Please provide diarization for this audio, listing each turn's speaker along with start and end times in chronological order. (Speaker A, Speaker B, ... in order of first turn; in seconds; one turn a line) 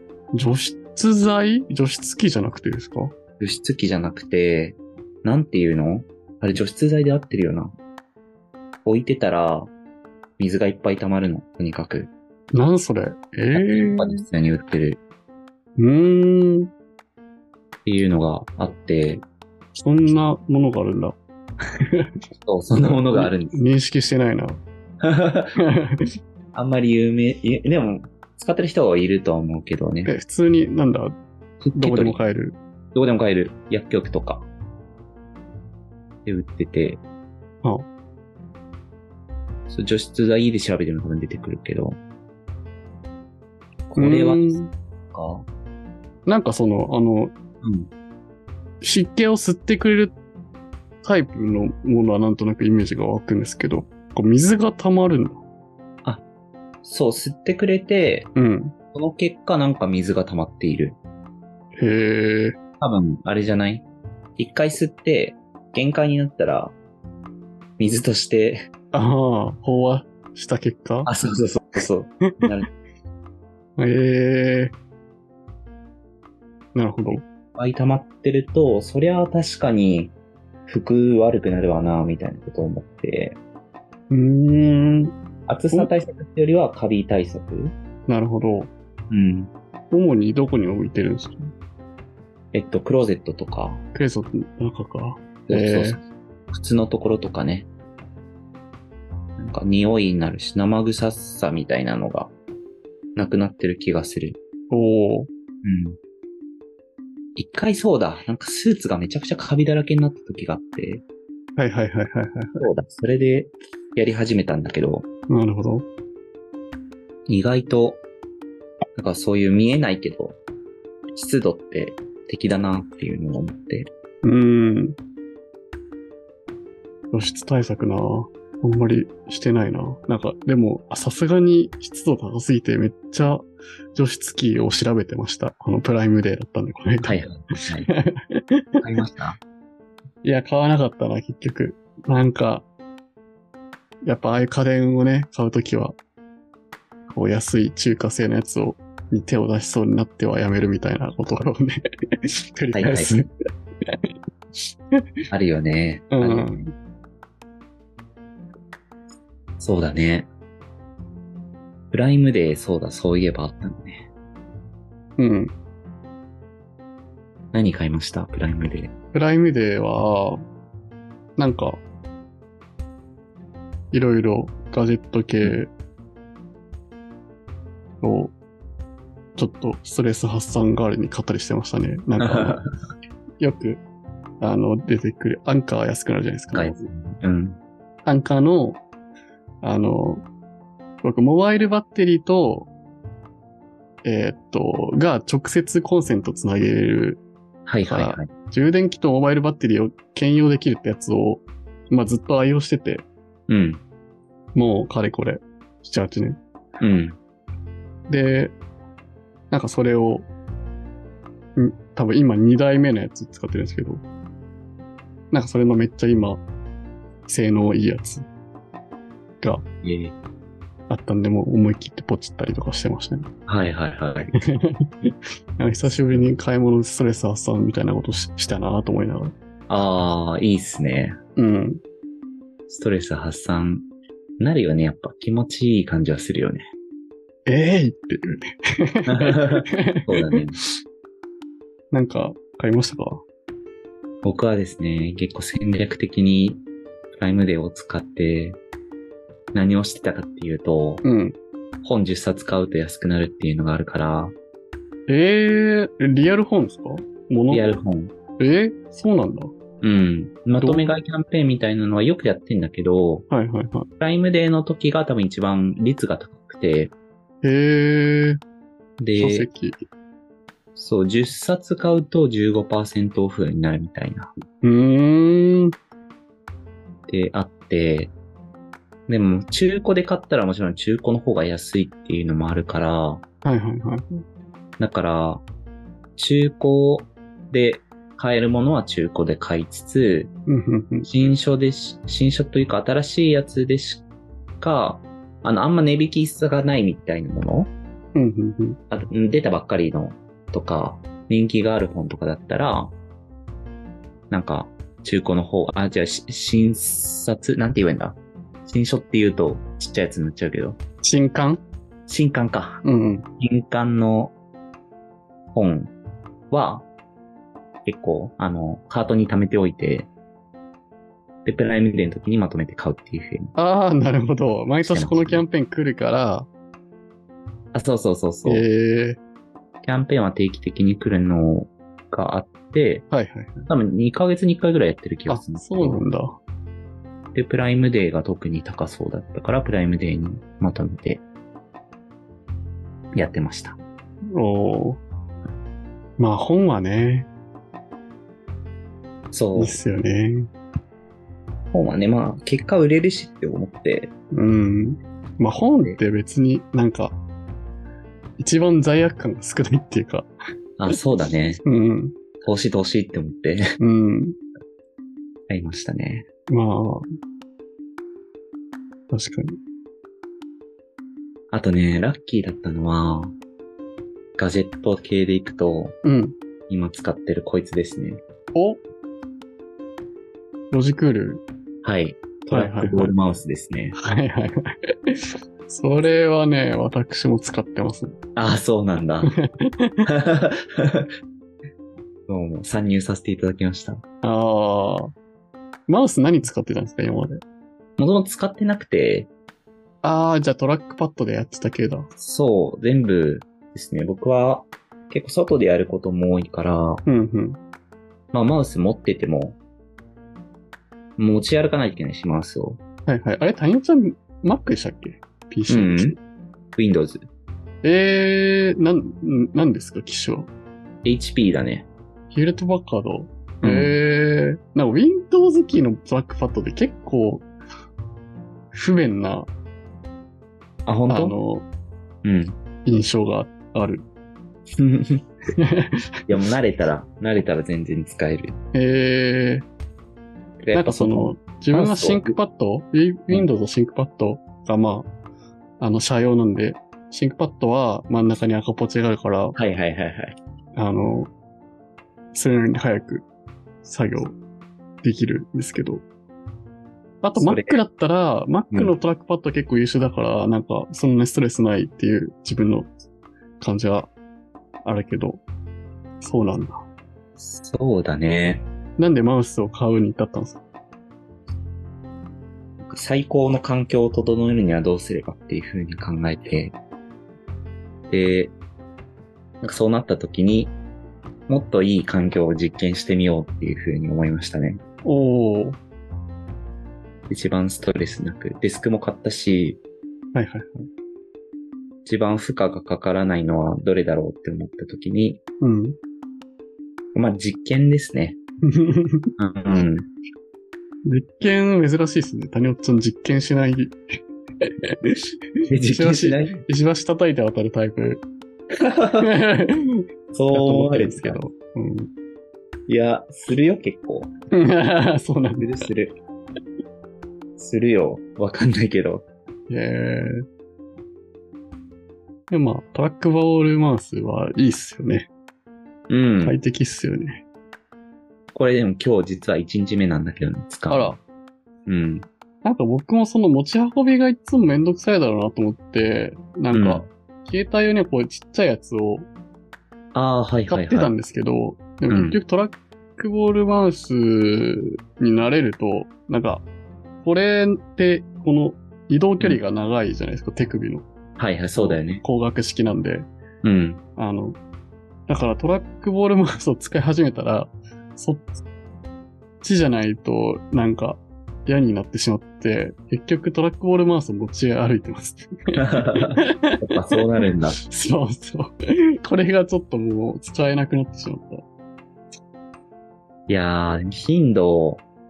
Speaker A: 0.3-3.1
Speaker B: 3.4-7.7
Speaker B: 8.8-9.7
Speaker B: 10.4-12.1
Speaker A: 12.5-14.3
Speaker B: 13.5-15.0
Speaker A: 15.8-16.7
Speaker B: 17.9-19.2
Speaker A: 19.7-21.1
Speaker B: 22.4-23.6
Speaker A: 23.1-24.6
Speaker B: 25.0-25.6
Speaker A: 25.6-25.9
Speaker B: 26.5-30.1
Speaker A: 30.1-31.1
Speaker B: 31.6-32.2
Speaker A: 31.8-32.6
Speaker B: 32.9-34.5
Speaker B: 36.3-37.0
Speaker B: 39.7-42.0
Speaker B: 43.9-44.6
Speaker A: 44.0-44.7
Speaker B: 45.1-45.5
Speaker A: 46.3-47.3
Speaker B: 47.6-47.9
Speaker A: 48.8-50.1
Speaker A: 51.0-55.4
Speaker B: 56.8-58.3
Speaker A: 58.4-58.7
Speaker B: 58.9-61.0
Speaker A: 61.8-62.5
Speaker B: 62.8-63.9
Speaker B: 64.4-66.7
Speaker B: 67.8-68.7
Speaker A: 68.9-71.1
Speaker B: 71.0-72.7
Speaker A: 73.8-74.7
Speaker A: 76.7-77.2
Speaker B: 77.5-80.1
Speaker B: 80.7-83.4
Speaker A: 84.1-85.1
Speaker B: 85.5-87.7
Speaker A: 88.1-88.7
Speaker B: 89.1-89.5
Speaker A: 89.9-91.5
Speaker B: 92.5-93.8
Speaker A: 93.9-96.0
Speaker B: 95.5-97.7
Speaker B: 99.4-102.3
Speaker B: 103.2-104.4
Speaker A: 104.7-105.3
Speaker B: 105.6-106.0
Speaker B: 107.4-111.0
Speaker A: 111.6-112.7
Speaker B: 112.6-115.0
Speaker A: 115.3-115.8
Speaker B: 117.3-118.0
Speaker B: 119.0-120.4
Speaker B: 121.1-123.9
Speaker A: 124.2-125.0
Speaker A: 127.1-137.4
Speaker B: 137.0-137.9
Speaker A: 137.9-138.6
Speaker B: 138.8-139.4
Speaker A: 140.2-142.7
Speaker A: 144.0-146.0
Speaker A: 147.1-151.8
Speaker A: 152.6-153.3
Speaker B: 152.7-153.2
Speaker B: 155.3-156.6
Speaker A: 156.1-156.7
Speaker B: 159.6-160.3
Speaker B: 161.9-164.1
Speaker A: 165.2-165.5
Speaker B: 167.5-168.9
Speaker A: 169.1-170.4
Speaker A: 171.4-171.8
Speaker A: 173.9-175.7
Speaker A: 178.0-178.3
Speaker A: 179.4-182.6
Speaker B: 182.2-182.7
Speaker A: 183.4-183.8
Speaker A: 184.4-186.8
Speaker B: 186.5-187.6
Speaker A: 188.1-188.8
Speaker A: 189.6-190.2
Speaker A: 191.0-192.7
Speaker A: 194.0-197.2
Speaker B: 197.7-198.3
Speaker A: 197.8-203.1
Speaker B: 203.5-203.8
Speaker A: 204.6-206.4
Speaker B: 206.8-207.2
Speaker A: 208.1-208.6
Speaker A: 209.5-210.3
Speaker A: 211.6-214.0
Speaker A: 215.3-216.4
Speaker A: 217.3-218.2
Speaker B: 219.8-220.2
Speaker A: 220.9-223.3
Speaker B: 223.5-224.3
Speaker A: 224.6-224.9
Speaker A: 225.6-229.3
Speaker B: 225.8-226.3
Speaker B: 229.7-231.2
Speaker A: 231.4-231.8
Speaker B: 232.7-233.9
Speaker B: 234.4-236.7
Speaker A: 237.5-240.7
Speaker B: 239.1-240.6
Speaker A: 241.9-243.2
Speaker B: 244.2-246.6
Speaker B: 247.2-248.6
Speaker B: 249.5-251.0
Speaker A: 251.0-251.4
Speaker B: 251.8-254.3
Speaker A: 255.1-257.8
Speaker B: 257.5-258.1
Speaker A: 258.4-259.5
Speaker B: 259.8-263.2
Speaker A: 260.6-260.9
Speaker A: 263.3-263.9
Speaker B: 264.0-266.9
Speaker A: 267.4-268.4
Speaker B: 269.0-269.5
Speaker A: 269.2-269.9
Speaker B: 270.8-274.3
Speaker A: 274.6-275.7
Speaker B: 277.1-278.1
Speaker B: 279.1-283.2
Speaker A: 283.4-284.2
Speaker B: 284.8-285.4
Speaker B: 286.2-290.3
Speaker A: 290.5-291.1
Speaker B: 291.0-294.1
Speaker B: 294.6-297.7
Speaker A: 298.1-298.8
Speaker B: 298.9-302.9
Speaker B: 304.3-310.8
Speaker A: 311.0-311.6
Speaker B: 312.1-312.8
Speaker A: 312.8-313.2
Speaker B: 313.4-314.4
Speaker B: 315.6-315.9
Speaker B: 316.5-316.9
Speaker B: 317.9-320.1
Speaker B: 321.4-323.6
Speaker A: 323.6-326.5
Speaker B: 324.8-325.4
Speaker B: 327.7-328.7
Speaker A: 328.4-329.2
Speaker B: 329.8-333.1
Speaker A: 333.1-333.7
Speaker B: 333.7-336.1
Speaker A: 335.3-336.4
Speaker B: 337.3-341.2
Speaker B: 343.1-343.8
Speaker A: 344.3-345.0
Speaker A: 346.2-347.3
Speaker B: 349.3-349.8
Speaker A: 349.6-350.5
Speaker B: 351.7-354.1
Speaker A: 354.3-357.2
Speaker A: 358.4-360.3
Speaker B: 360.8-361.6
Speaker A: 361.6-362.1
Speaker B: 362.4-363.6
Speaker A: 363.8-364.4
Speaker B: 365.5-366.3
Speaker A: 366.5-367.1
Speaker A: 369.1-369.6
Speaker B: 371.5-373.4
Speaker B: 374.4-376.0
Speaker A: 376.0-376.4
Speaker B: 376.7-378.2
Speaker A: 378.6-378.8
Speaker A: 380.7-381.4
Speaker B: 381.8-384.0
Speaker A: 382.5-383.1
Speaker A: 384.0-384.7
Speaker A: 385.7-388.2
Speaker B: 388.4-389.3
Speaker A: 389.2-390.1
Speaker B: 390.1-391.1
Speaker B: 392.3-394.0
Speaker A: 394.2-395.1
Speaker A: 395.9-397.4
Speaker B: 398.0-399.3
Speaker A: 400.0-402.1
Speaker B: 402.2-407.0
Speaker A: 407.1-407.6
Speaker B: 408.3-409.6
Speaker B: 411.2-412.8
Speaker A: 413.1-416.2
Speaker B: 415.7-416.2
Speaker B: 416.8-417.2
Speaker A: 417.8-420.5
Speaker B: 421.0-421.9
Speaker A: 422.3-427.5
Speaker B: 423.6-424.0
Speaker A: 428.7-429.5
Speaker B: 430.9-431.4
Speaker A: 431.1-431.6
Speaker B: 432.2-432.6
Speaker A: 432.9-434.1
Speaker B: 434.8-435.2
Speaker A: 435.6-435.9
Speaker B: 436.3-438.6
Speaker A: 438.7-439.6
Speaker B: 440.6-442.4
Speaker A: 440.7-445.1
Speaker A: 445.8-449.6
Speaker B: 449.6-450.4
Speaker A: 450.8-451.3
Speaker A: 452.3-453.2
Speaker A: 453.8-454.4
Speaker A: 455.0-456.0
Speaker A: 457.2-462.9
Speaker B: 457.4-457.8
Speaker A: 463.6-464.1
Speaker A: 464.8-465.4
Speaker A: 466.2-466.8
Speaker B: 467.4-468.6
Speaker A: 469.0-470.6
Speaker B: 472.9-476.8
Speaker B: 478.1-478.5
Speaker B: 479.6-480.7
Speaker B: 481.5-484.8
Speaker A: 485.0-485.8
Speaker B: 487.3-489.8
Speaker A: 490.3-490.9
Speaker B: 492.1-495.4
Speaker A: 495.6-496.0
Speaker B: 497.1-498.4
Speaker A: 498.7-499.3
Speaker B: 499.4-500.1
Speaker A: 501.1-504.0
Speaker B: 505.7-506.6
Speaker A: 505.9-508.2
Speaker B: 508.8-509.3
Speaker A: 509.2-509.8
Speaker B: 510.3-511.4
Speaker A: 510.5-512.1
Speaker B: 512.9-514.3
Speaker A: 514.5-515.9
Speaker B: 515.6-516.1
Speaker B: 517.6-519.2
Speaker A: 519.7-520.4
Speaker A: 522.5-525.3
Speaker B: 526.1-526.6
Speaker A: 526.4-527.4
Speaker B: 528.5-531.2
Speaker A: 530.9-531.2
Speaker B: 531.9-532.2
Speaker A: 532.6-539.3
Speaker B: 536.7-537.1
Speaker B: 540.1-541.1
Speaker A: 540.7-546.6
Speaker B: 542.1-542.4
Speaker A: 547.2-551.1
Speaker B: 551.4-552.2
Speaker A: 551.8-553.3
Speaker B: 553.6-554.0
Speaker A: 554.2-554.6
Speaker A: 555.3-558.6
Speaker A: 559.6-566.8
Speaker B: 565.8-567.8
Speaker A: 567.9-571.6
Speaker B: 573.5-575.0